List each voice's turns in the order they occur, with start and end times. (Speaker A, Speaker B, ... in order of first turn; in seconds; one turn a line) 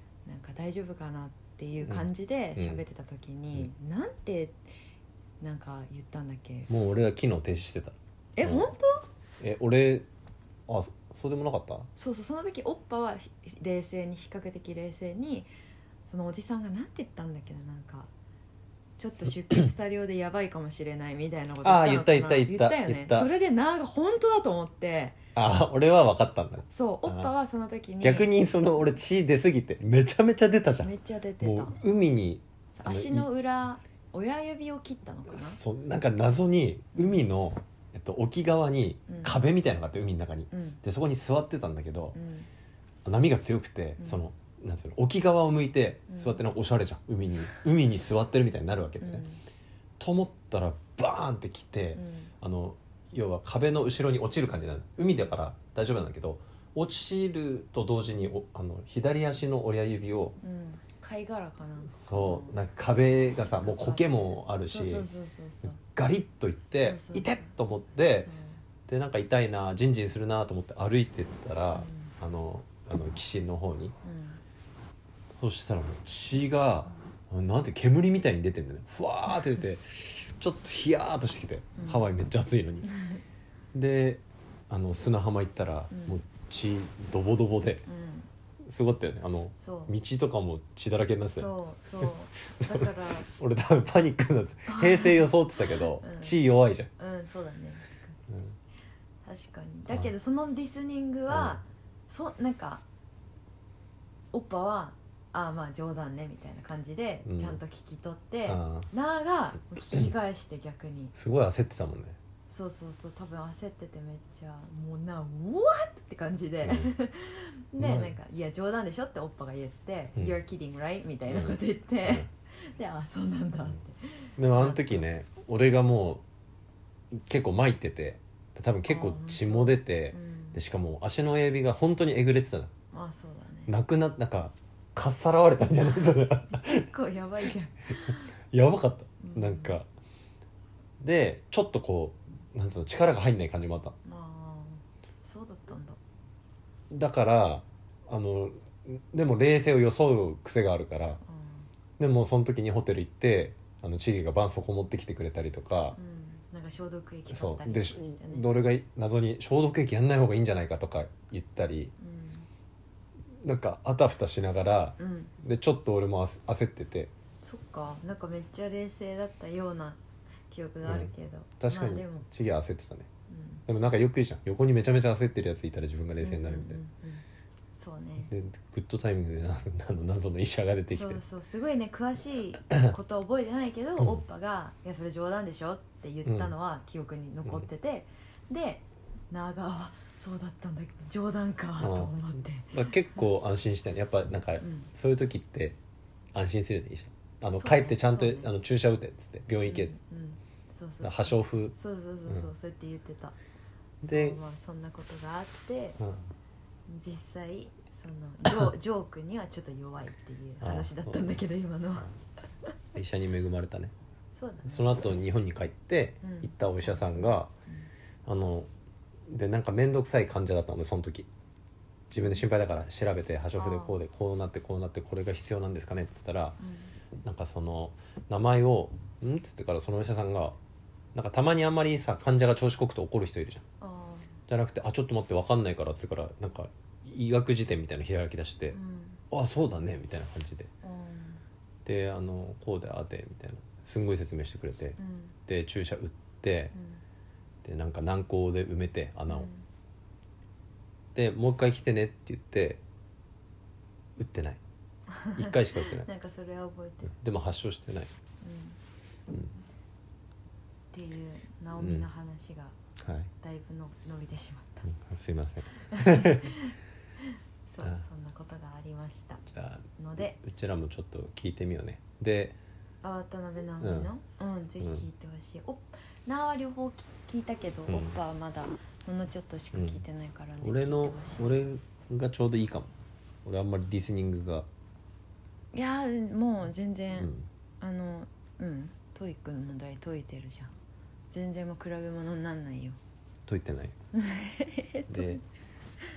Speaker A: 0.3-4.6
Speaker B: 1.8-2.8
Speaker A: 5.4-6.7
Speaker B: 6.7-8.7
Speaker A: 8.4-9.1
Speaker B: 9.4-10.1
Speaker B: 10.7-11.9
Speaker A: 12.0-15.5
Speaker A: 16.1-18.1
Speaker A: 19.0-25.2
Speaker B: 21.6-23.3
Speaker B: 25.4-27.3
Speaker A: 26.7-28.3
Speaker B: 28.0-33.3
Speaker A: 30.8-31.8
Speaker A: 32.8-35.6
Speaker B: 35.3-42.2
Speaker A: 37.0-37.2
Speaker A: 39.1-39.4
Speaker A: 40.5-40.8
Speaker A: 42.1-42.5
Speaker B: 43.0-49.2
Speaker A: 44.0-44.3
Speaker A: 46.1-46.4
Speaker A: 49.0-49.4
Speaker B: 50.0-60.4
Speaker A: 52.0-52.3
Speaker A: 60.4-62.6
Speaker B: 61.9-65.1
Speaker A: 63.4-65.8
Speaker B: 65.8-68.3
Speaker A: 66.8-67.5
Speaker A: 68.2-68.6
Speaker B: 68.9-74.0
Speaker A: 71.7-72.1
Speaker A: 74.0-74.4
Speaker B: 75.4-82.9
Speaker A: 81.8-82.1
Speaker A: 82.9-83.2
Speaker B: 83.7-87.8
Speaker A: 85.9-86.2
Speaker A: 87.9-88.3
Speaker B: 88.6-96.9
Speaker A: 89.6-90.0
Speaker A: 91.3-93.3
Speaker A: 94.7-96.4
Speaker A: 97.0-98.2
Speaker B: 98.3-98.6
Speaker A: 99.2-102.8
Speaker B: 101.3-101.6
Speaker A: 104.3-111.1
Speaker B: 107.3-107.6
Speaker B: 108.5-108.9
Speaker B: 111.1-112.2
Speaker A: 112.5-125.0
Speaker B: 116.6-116.9
Speaker B: 117.8-118.1
Speaker B: 121.3-122.3
Speaker B: 124.4-126.2
Speaker B: 127.1-132.7
Speaker A: 128.9-130.6
Speaker A: 132.9-133.7
Speaker B: 133.7-136.9
Speaker A: 136.5-138.3
Speaker B: 138.1-139.9
Speaker A: 139.2-139.8
Speaker B: 141.0-144.0
Speaker A: 144.0-146.0
Speaker B: 146.9-151.2
Speaker A: 151.2-151.7
Speaker B: 152.0-156.0
Speaker A: 155.9-158.5
Speaker B: 157.3-161.9
Speaker A: 162.0-162.5
Speaker B: 163.4-167.1
Speaker A: 165.0-165.3
Speaker A: 167.4-172.3
Speaker B: 170.8-173.1
Speaker A: 173.3-173.7
Speaker B: 173.7-176.8
Speaker A: 176.2-177.2
Speaker A: 177.8-178.3
Speaker B: 178.3-181.2
Speaker A: 180.9-193.2
Speaker B: 184.0-184.2
Speaker B: 186.3-186.5
Speaker B: 191.8-192.1
Speaker B: 192.7-195.8
Speaker A: 194.6-194.9
Speaker B: 196.3-200.0
Speaker A: 197.5-198.5
Speaker A: 199.7-203.4
Speaker B: 201.0-201.7
Speaker B: 204.0-204.4
Speaker A: 204.1-206.0
Speaker B: 206.0-206.2
Speaker A: 206.9-212.1
Speaker B: 210.6-211.2
Speaker B: 212.9-213.9
Speaker A: 214.3-214.9
Speaker B: 214.7-217.5
Speaker A: 216.2-217.9
Speaker B: 218.3-218.7
Speaker B: 219.3-221.3
Speaker B: 222.1-226.6
Speaker A: 222.2-222.4
Speaker A: 223.6-224.0
Speaker A: 226.6-226.9
Speaker B: 227.2-230.6
Speaker B: 231.1-233.6
Speaker A: 233.8-234.4
Speaker B: 234.5-238.8
Speaker A: 238.7-239.2
Speaker B: 239.3-240.7
Speaker A: 240.8-241.4
Speaker B: 241.8-246.7
Speaker A: 245.0-245.4
Speaker A: 246.7-247.0
Speaker B: 247.6-249.5
Speaker A: 249.3-249.7
Speaker B: 251.2-252.8
Speaker B: 254.2-254.6
Speaker A: 255.1-257.2
Speaker B: 255.3-256.1
Speaker B: 257.1-258.1
Speaker A: 258.4-258.8
Speaker A: 260.9-262.8
Speaker B: 261.8-262.1
Speaker B: 263.0-263.3
Speaker A: 263.4-264.9
Speaker B: 264.9-266.6
Speaker A: 265.7-270.4
Speaker B: 269.5-269.9
Speaker B: 270.4-272.6
Speaker A: 273.0-281.6
Speaker B: 273.8-274.1
Speaker B: 277.9-278.2
Speaker B: 279.7-280.0
Speaker B: 280.6-282.9
Speaker B: 283.4-284.7
Speaker A: 285.7-290.7
Speaker B: 287.2-287.5
Speaker A: 291.3-293.0
Speaker B: 293.5-293.9
Speaker A: 294.1-295.4
Speaker B: 295.1-295.4